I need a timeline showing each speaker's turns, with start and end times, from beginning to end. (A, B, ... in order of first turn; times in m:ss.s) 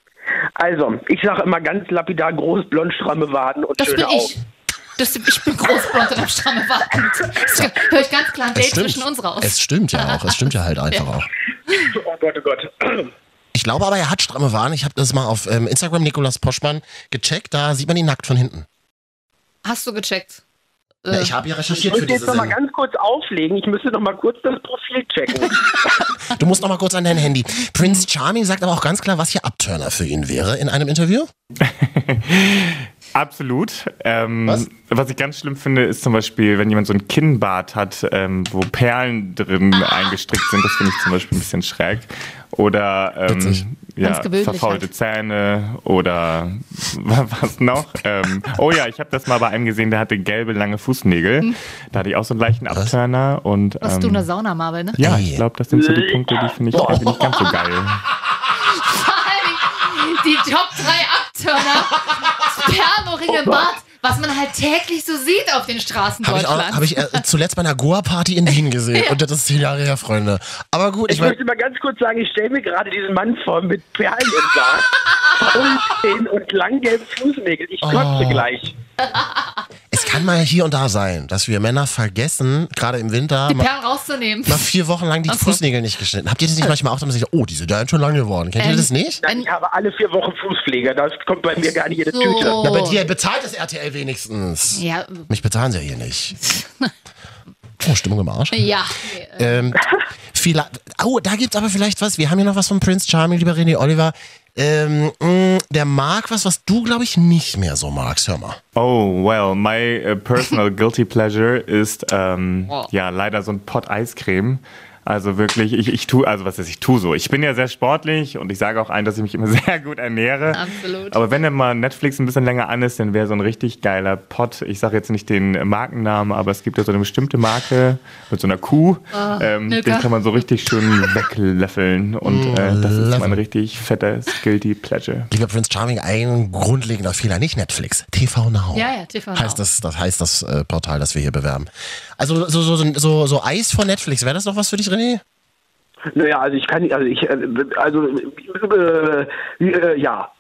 0:00.6-0:04.4 A
0:03.8-0:04.4 B
0:05.0-0:10.5 B
0:08.5-0:11.3 C
0:11.7-0:13.1 A
0:13.5-0:18.7 C
0:19.6-0:20.4 B
0:21.0-0:21.3 B
0:21.1-0:22.6 C
0:21.7-0:25.8 A
0:26.3-0:31.3 C
0:31.6-0:54.3 D
0:43.3-0:43.6 C
0:44.0-0:44.9 B
0:53.8-0:55.0 B
0:55.0-0:58.1 D
0:55.0-0:55.4 C
0:55.7-0:57.0 A
0:56.7-0:57.5 C
0:58.6-1:07.2 B
1:03.3-1:03.7 A
1:06.2-1:11.4 C
1:11.1-1:18.8 A
1:17.8-1:18.5 C
1:19.0-1:19.5 B
1:19.9-1:23.7 C
1:23.5-1:24.7 B
1:24.5-1:29.2 C
1:25.3-1:25.6 B
1:28.6-1:29.5 B
1:29.2-1:32.6 A
1:32.1-1:33.0 B
1:32.6-1:36.4 C
1:34.7-1:35.3 B
1:36.5-1:36.9 B
1:37.8-1:38.7 C
1:38.5-1:39.6 B
1:39.4-1:48.6 C
1:48.8-2:15.3 D
2:00.5-2:01.4 B
2:09.1-2:10.1 B
2:12.2-2:13.4 C
2:15.3-2:25.2 C
2:18.7-2:19.6 B
2:26.1-2:30.3 A